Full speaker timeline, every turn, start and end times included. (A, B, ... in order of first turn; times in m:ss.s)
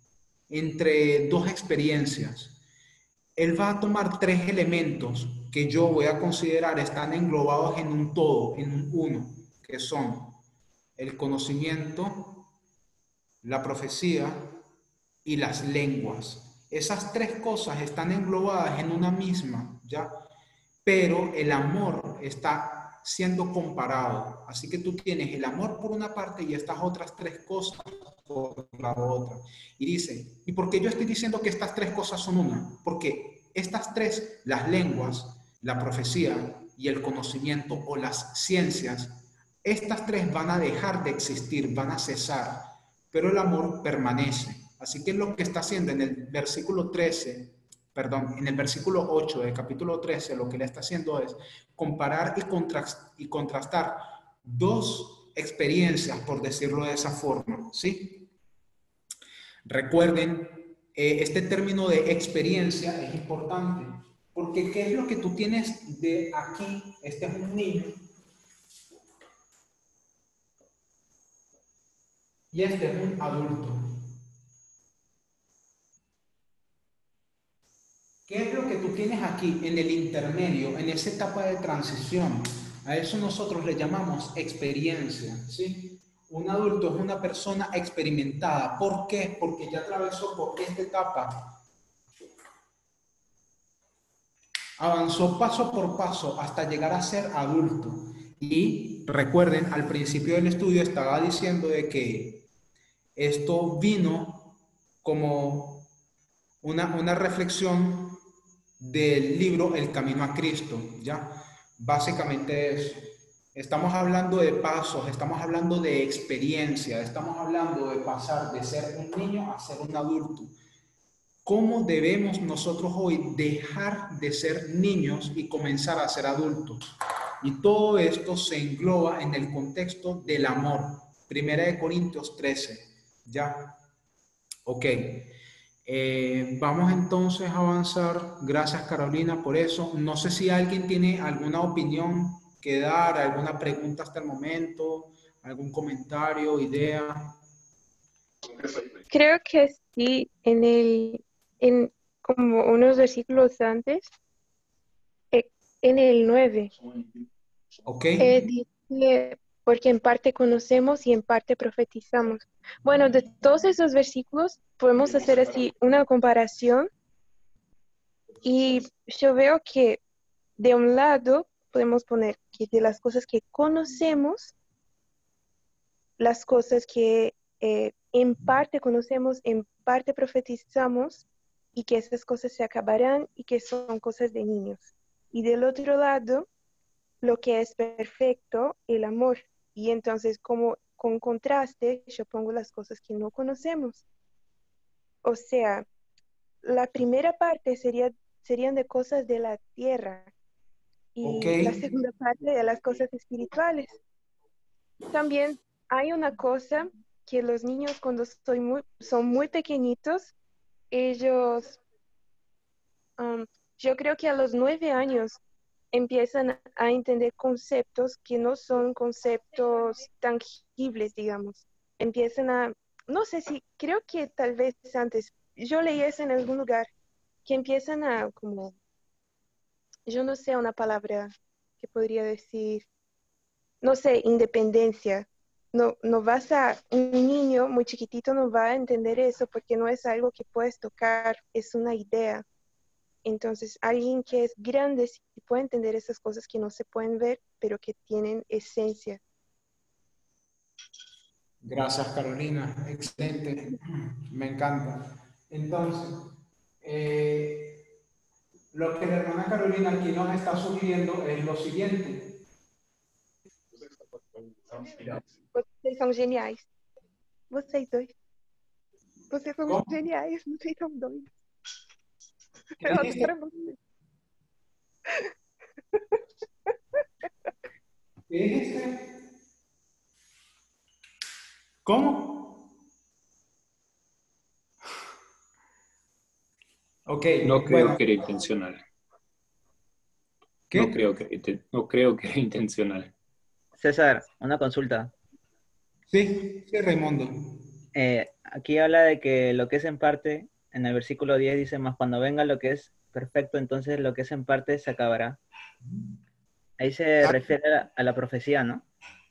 0:00.5-0:02.6 A
0:03.4-0:10.4 A
0:11.0-0:12.5 A
0:13.4-0:14.6 A
0:15.2-0:20.1 A
0:20.8-0:58.3 A
0:59.7-1:08.0 A
1:12.5-1:14.0 A
1:18.3-1:31.6 A
1:34.8-1:42.5 A
1:43.2-1:45.9 A
1:46.6-1:48.2 A
1:48.8-2:00.5 A
2:01.4-2:13.8 A
2:14.7-2:15.3 A
2:15.8-2:27.4 A
2:29.1-2:34.1 B
2:35.3-2:36.8 B
2:37.9-2:38.5 A
2:38.2-2:46.9 B
2:48.4-2:50.0 B
2:50.6-2:54.5 B
2:56.2-3:06.5 B
3:07.2-3:14.0 B
3:15.2-3:15.9 B
3:16.6-3:20.3 B
3:21.2-3:24.0 B
3:21.2-3:21.8 A
3:25.1-3:30.3 B
3:30.9-3:31.8 B
3:33.2-3:35.4 B
3:35.9-3:46.9 B
3:47.5-3:48.7 B
3:50.1-3:52.9 B
3:53.8-4:02.4 B
4:03.2-4:09.2 B
4:11.6-4:17.8 A
4:18.7-4:22.4 A
4:25.5-4:26.7 B
4:27.5-4:28.1 B
4:29.3-4:31.3 B
4:29.7-4:29.9 A
4:32.8-4:33.8 B
4:32.8-4:33.3 A
4:38.3-4:39.2 A
4:41.8-4:42.7 A
4:47.1-4:48.0 A
4:47.4-4:48.8 C
4:50.7-4:53.1 C
4:53.8-4:55.1 D
4:56.1-4:57.6 A
4:58.0-5:05.4 D
5:06.8-5:08.9 D